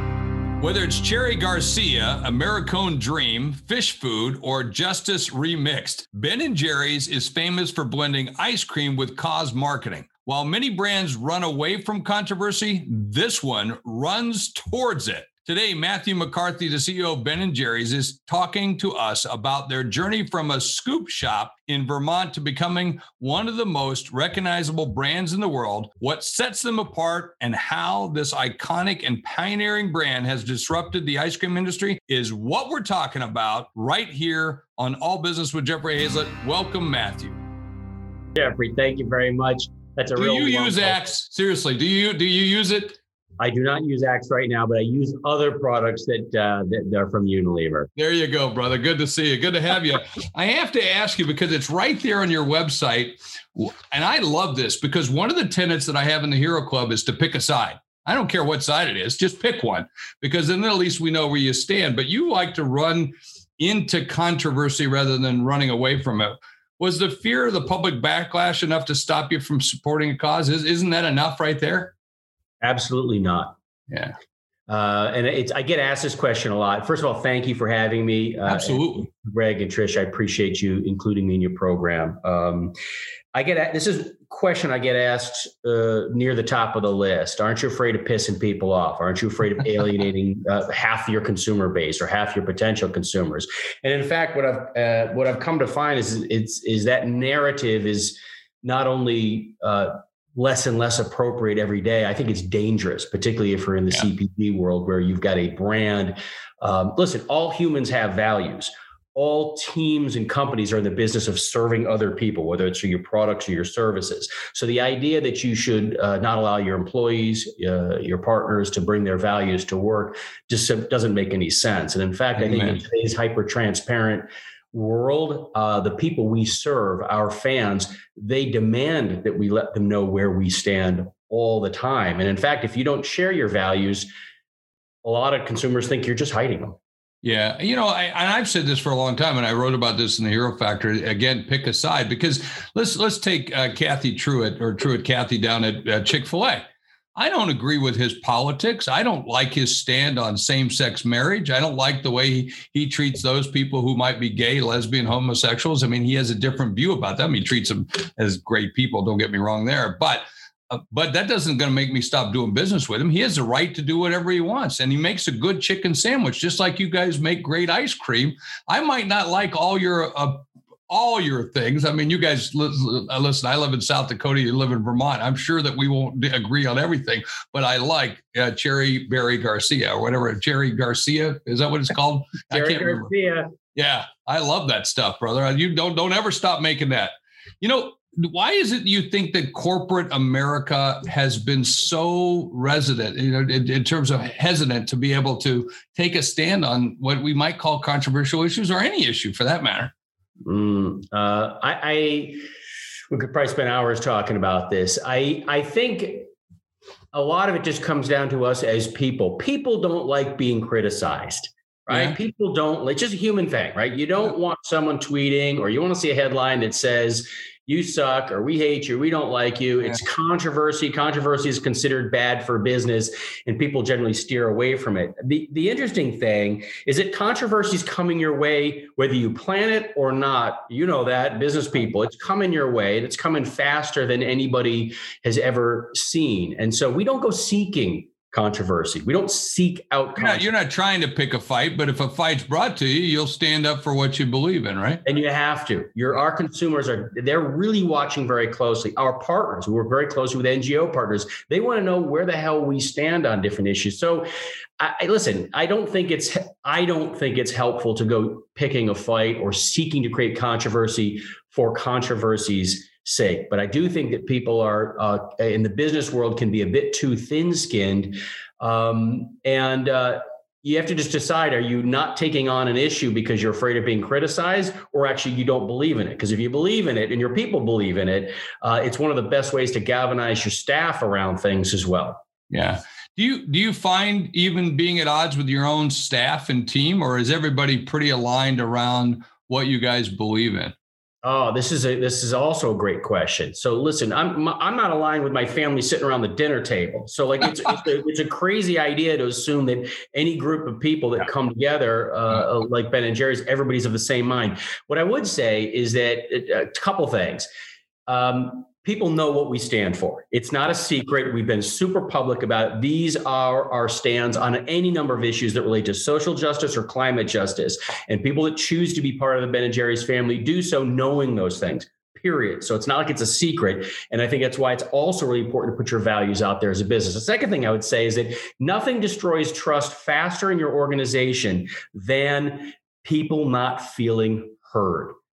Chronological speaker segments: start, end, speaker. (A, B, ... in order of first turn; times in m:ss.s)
0:00.6-0:37.4 A
0:38.4-0:41.0 B
0:40.2-0:43.0 A
0:43.4-0:47.9 B
0:48.0-1:11.9 A
1:12.6-1:13.6 B
1:13.9-1:14.1 A
1:14.7-1:22.7 B
1:18.5-1:19.1 A
1:23.3-2:14.1 B
2:02.4-2:02.8 A
2:15.0-2:16.8 B
2:17.2-2:26.6 A
2:27.2-3:03.1 A
3:02.5-3:03.5 B
3:03.7-3:19.9 A
3:20.4-3:22.4 B
3:23.1-3:26.3 B
3:27.1-4:00.5 B
3:31.9-3:32.2 A
4:00.2-4:05.0 A
4:05.0-4:14.3 B
4:14.8-4:42.2 B
4:42.5-4:50.7 A
4:51.2-5:07.5 B
5:08.1-5:35.2 B